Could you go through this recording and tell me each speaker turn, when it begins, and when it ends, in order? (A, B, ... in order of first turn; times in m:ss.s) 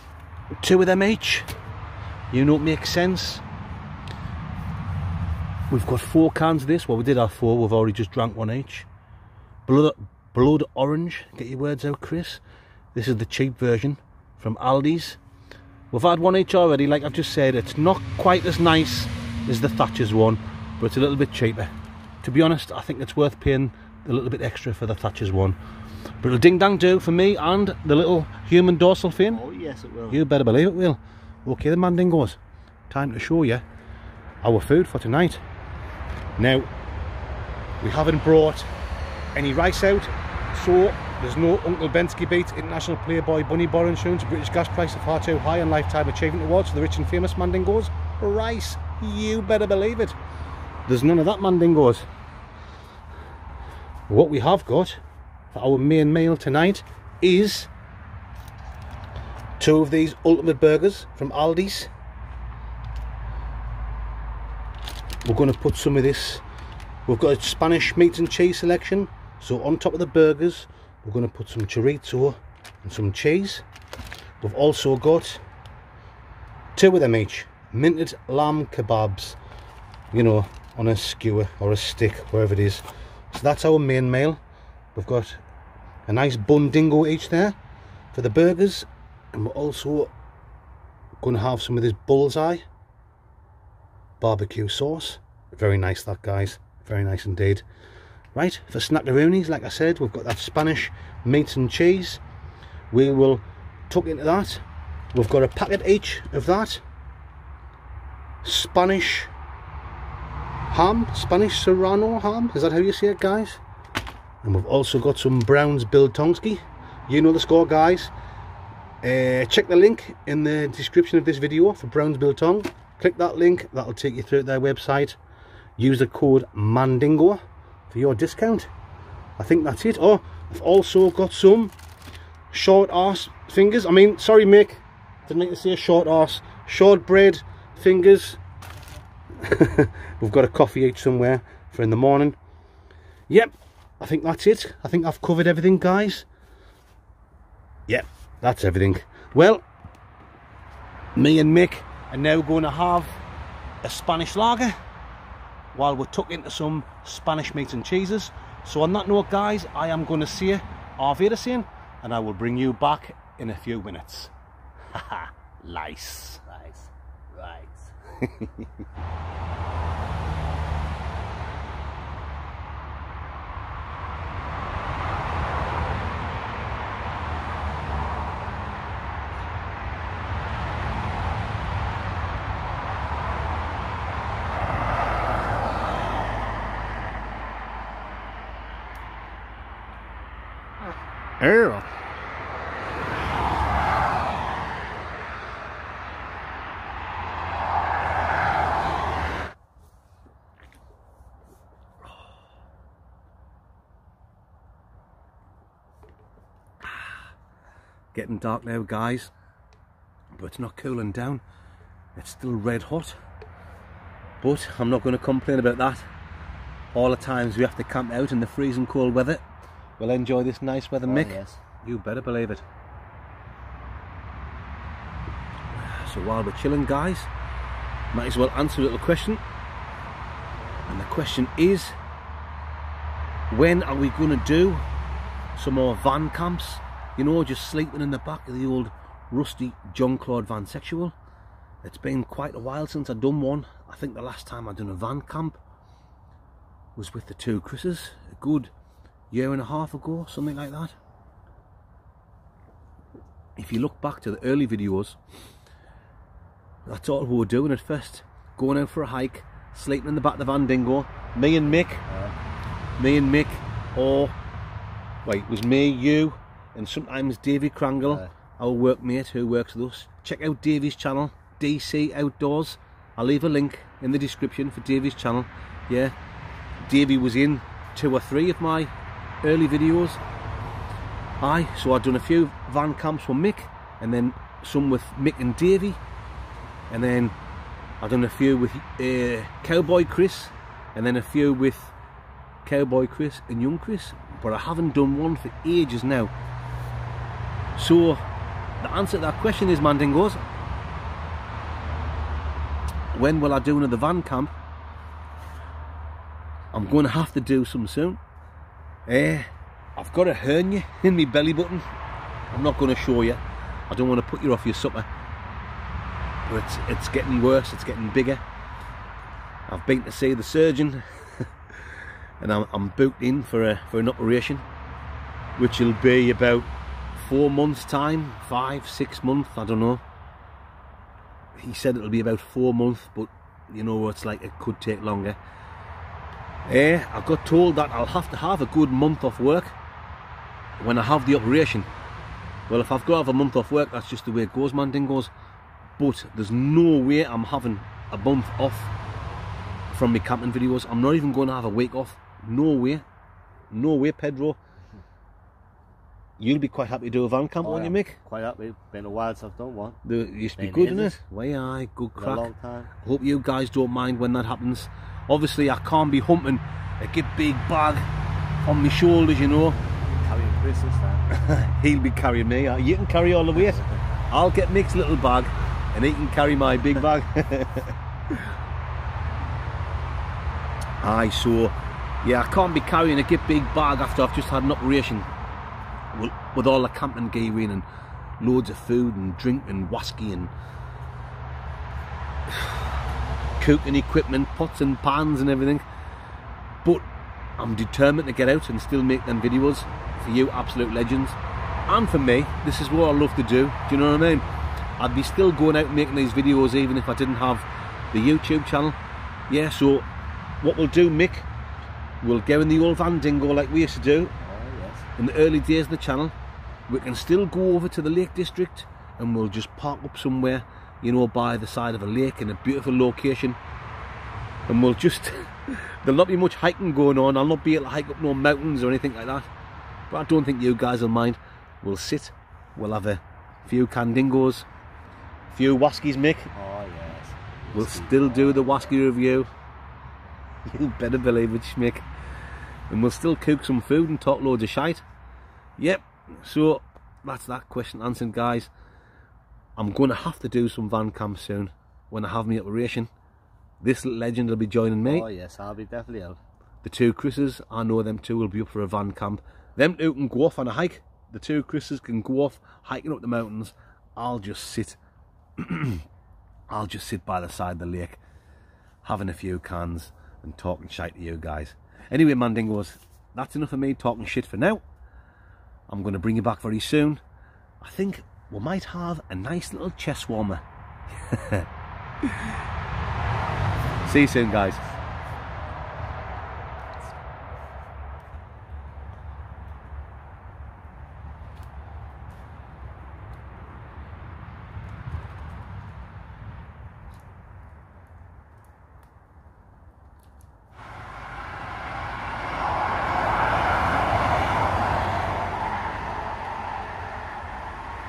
0:00.6-0:01.5 A
0:02.3-0:03.4 A
0:05.7-0:08.9 A
0:09.6-0:12.4 A
0:12.9-0:15.2 A
0:15.9-0:21.7 A
0:22.2-0:25.6 A
0:26.2-0:29.4 A
0:29.3-0:30.2 B
0:30.1-0:32.4 A
0:32.9-0:33.6 A
0:34.4-0:35.4 A
0:36.4-0:36.7 A
0:37.8-0:38.7 A
0:39.3-0:50.1 A
0:50.9-0:52.0 A
0:54.1-0:55.0 A
0:55.5-0:57.7 A
0:59.6-1:01.9 A
1:05.2-1:06.4 A
1:07.0-1:13.6 A
1:14.4-1:15.4 A
1:16.8-1:19.4 A
1:20.1-1:24.4 A
1:24.9-1:25.4 A
1:26.1-1:27.6 A
1:28.1-1:30.1 A
1:31.2-1:32.6 A
1:34.2-1:37.6 A
1:38.3-1:42.2 A
1:42.9-1:44.6 A
1:45.1-1:46.8 A
1:48.4-1:49.3 A
1:50.7-1:53.6 A
1:54.4-1:58.1 A
1:59.0-2:05.2 A
2:05.8-2:08.7 A
2:09.4-2:11.7 A
2:12.5-2:18.4 A
2:19.4-2:22.4 A
2:23.3-2:26.2 A
2:27.9-2:29.6 A
2:31.2-2:33.2 A
2:33.8-2:34.8 A
2:35.7-2:44.3 A
2:44.9-2:46.4 A
2:46.5-2:47.9 B
3:11.4-3:11.9 A
3:28.1-3:29.3 A
3:30.3-3:31.4 A
3:32.2-3:33.2 A
3:34.4-3:36.1 A
3:36.9-3:39.4 A
3:40.0-3:42.6 A
3:41.0-3:41.6 B
3:45.7-3:47.3 A
3:48.1-3:49.4 A
3:50.9-3:52.0 A
3:53.5-3:54.8 A
3:55.6-4:01.1 A
4:01.8-4:05.6 A
4:07.0-4:08.7 A
4:09.3-4:10.9 A
4:13.6-4:15.2 A
4:16.8-4:22.0 A
4:22.1-4:22.4 B
4:23.0-4:24.3 A
4:25.2-4:36.1 A
4:28.0-4:28.3 B
4:36.8-4:38.9 A
4:39.4-4:40.2 A
4:41.4-4:46.0 A
4:46.9-4:47.3 A
4:48.0-4:51.9 A
4:52.6-4:56.3 A
4:57.8-4:58.2 A
4:58.8-5:00.4 A
5:03.1-5:04.5 A
5:06.7-5:08.2 A
5:09.1-5:11.8 A
5:12.5-5:15.1 A
5:16.5-5:18.4 A
5:19.7-5:21.5 A
5:22.4-5:24.6 A
5:25.6-5:30.0 A
5:31.6-5:35.4 A
5:36.6-5:39.8 A
5:40.8-5:41.9 A
5:42.7-5:45.3 A
5:46.0-5:48.9 A
5:49.9-5:53.0 A
5:53.7-5:54.6 A
5:56.4-5:58.2 A
5:57.6-6:00.0 B
6:00.0-6:08.1 A
6:00.6-6:01.2 B
6:02.2-6:02.9 B
6:08.6-6:09.8 A
6:10.2-6:11.2 B
6:11.3-6:17.9 A
6:21.0-6:25.3 A
6:26.1-6:27.8 A
6:28.4-6:30.5 A
6:33.6-6:35.8 A
6:37.6-6:41.4 A
6:41.9-6:44.4 A
6:45.0-6:49.0 A
6:49.5-6:50.0 A
6:50.6-6:51.5 A
6:52.2-6:54.3 A
6:54.4-6:55.1 B
6:55.2-6:56.3 A
6:56.9-7:03.6 A
7:04.7-7:09.5 A
7:10.1-7:14.6 A
7:15.5-7:16.5 A
7:16.5-7:18.9 B
7:17.7-7:19.5 A
7:20.6-7:22.0 A
7:22.9-7:25.0 A
7:25.8-7:28.7 A
7:29.8-7:33.1 A
7:33.8-7:35.3 A
7:35.0-7:36.4 B
7:36.8-7:45.0 A
7:45.6-7:46.0 A
7:46.7-7:48.2 A
7:49.0-7:54.8 A
7:55.9-7:57.2 A
7:57.8-8:00.6 A
8:01.2-8:01.7 A
8:02.2-8:02.5 A
8:04.0-8:04.8 A